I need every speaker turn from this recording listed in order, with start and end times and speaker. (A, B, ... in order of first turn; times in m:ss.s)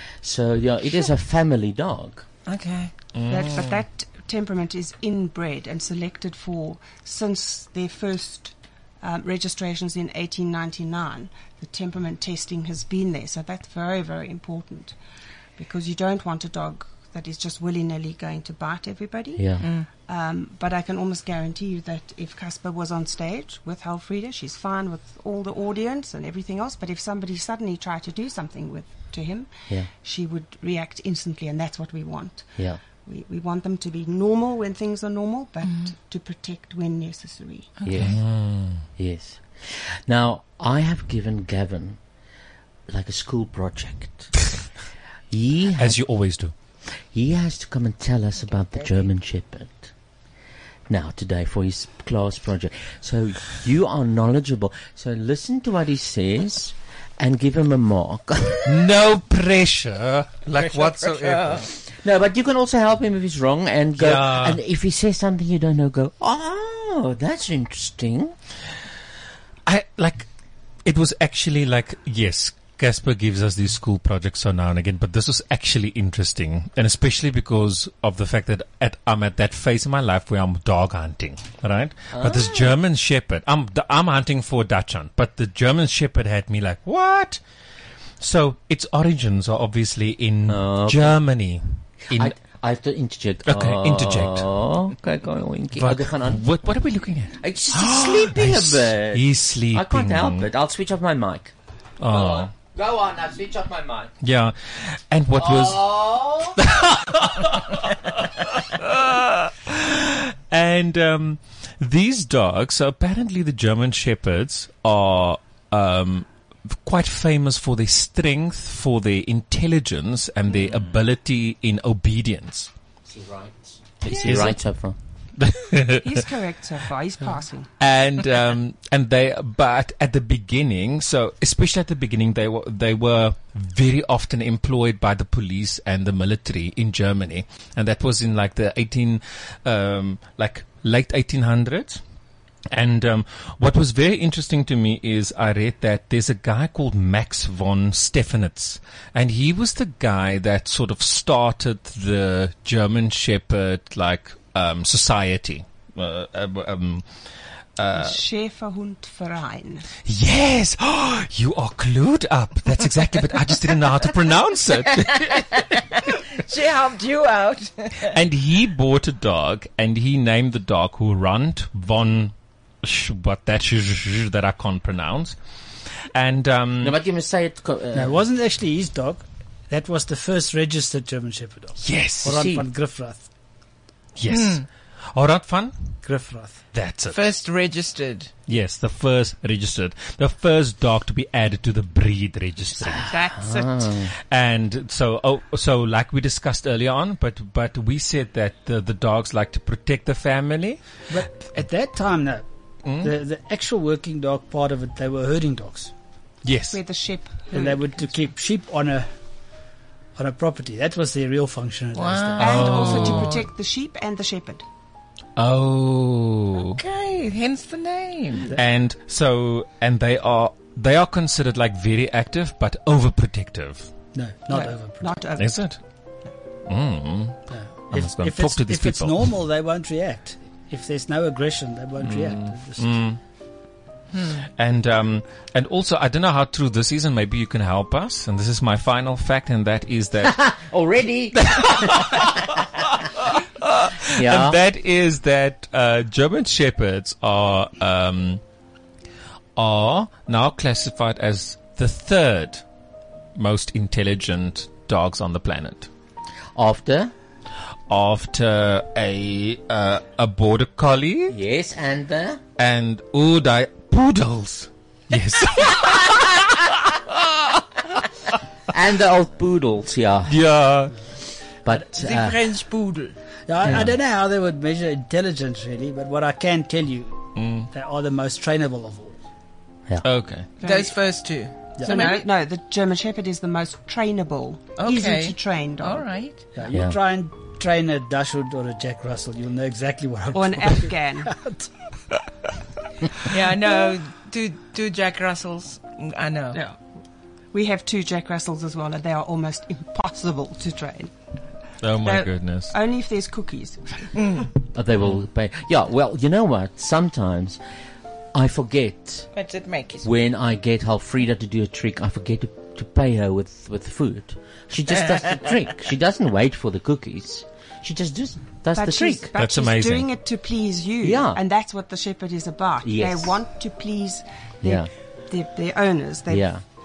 0:00.2-0:02.2 A
0:02.5-0:02.9 B
0:03.1-0:03.8 C
0:03.3-0:15.0 D
0:15.6-0:19.5 D
0:19.4-0:19.7 A
0:19.6-0:19.9 B
0:20.0-0:37.7 D
0:35.6-0:35.9 B
0:37.8-0:38.1 B
0:37.8-0:42.0 A
0:37.9-0:38.8 C
0:42.9-0:44.3 A
0:45.3-0:46.0 A
0:45.8-0:46.5 C
0:47.1-0:49.9 A
0:50.9-0:58.8 A
0:58.6-1:01.6 C
1:00.6-1:01.7 B
1:02.0-1:08.3 A
1:04.0-1:04.6 C
1:09.6-1:10.3 C
1:10.8-1:27.4 C
1:22.1-1:22.8 A
1:28.2-1:32.4 C
1:30.5-1:31.2 A
1:32.1-1:36.4 A
1:33.4-1:34.5 C
1:35.7-1:40.5 C
1:37.4-1:41.5 A
1:42.0-1:42.5 C
1:42.0-1:44.1 A
1:44.2-2:02.7 C
1:45.3-1:46.7 A
2:03.0-2:05.0 A
2:04.0-2:04.6 C
2:04.0-2:04.5 B
2:05.4-2:06.1 C
2:06.0-2:07.7 D
2:07.8-2:22.0 C
2:22.7-2:37.0 C
2:37.8-2:38.2 C
2:37.9-2:39.8 D
2:40.0-2:45.5 C
2:45.1-2:48.1 B
2:48.1-2:55.4 C
2:56.1-2:57.0 C
2:56.8-2:58.2 A
2:57.9-3:03.3 E
3:01.8-3:02.5 C
3:02.2-3:02.6 A
3:04.2-3:05.7 C
3:04.3-3:04.6 B
3:06.0-3:06.6 E
3:06.7-3:07.3 C
3:07.1-3:08.3 B
3:08.5-3:13.1 C
3:12.8-3:14.1 A
3:12.9-3:13.8 D
3:14.3-3:20.8 C
3:21.1-3:22.5 E
3:22.8-3:23.1 C
3:23.0-3:25.9 E
3:26.4-3:26.8 C
3:26.7-3:28.1 D
3:27.5-3:29.1 E
3:30.2-3:33.0 E
3:31.9-3:33.4 B
3:32.4-3:33.3 C
3:32.4-3:34.6 D
3:35.4-3:36.8 C
3:36.6-3:38.5 B
3:38.5-3:43.9 C
3:44.1-3:45.2 E
3:44.5-3:45.7 D
3:45.4-3:45.8 C
3:46.6-3:49.3 C
3:47.5-3:53.0 E
3:52.0-3:53.2 C
3:54.1-3:54.4 B
3:54.6-4:00.5 C
4:00.2-4:02.4 A
4:01.4-4:02.6 C
4:03.3-4:08.4 C
4:04.1-4:04.6 A
4:09.6-4:12.6 C
4:13.4-4:15.9 C
4:16.6-4:17.1 A
4:17.9-4:21.4 C
4:21.3-4:22.4 A
4:22.6-4:27.4 C
4:28.7-4:30.4 A
4:30.3-4:30.9 C
4:31.6-4:32.4 A
4:31.7-4:33.2 B
4:33.5-4:39.2 E
4:37.4-4:37.7 C
4:40.0-4:40.5 C
4:40.6-4:46.1 D
4:40.6-4:42.3 B
4:41.8-4:42.2 E
4:44.8-4:46.4 B
4:46.5-4:51.7 E
4:50.3-4:51.3 D
4:53.3-4:56.6 B
4:57.5-5:01.1 D
5:01.8-5:02.7 C
5:02.0-5:04.1 D
5:04.2-5:04.5 B
5:04.7-5:07.6 A
5:08.3-5:09.3 A
5:09.3-5:10.1 B
5:10.0-5:19.3 A
5:18.7-5:26.5 D
5:19.3-5:20.1 C
5:21.0-5:21.4 A
5:22.8-5:23.4 A
5:24.6-5:24.9 A
5:26.3-5:26.6 A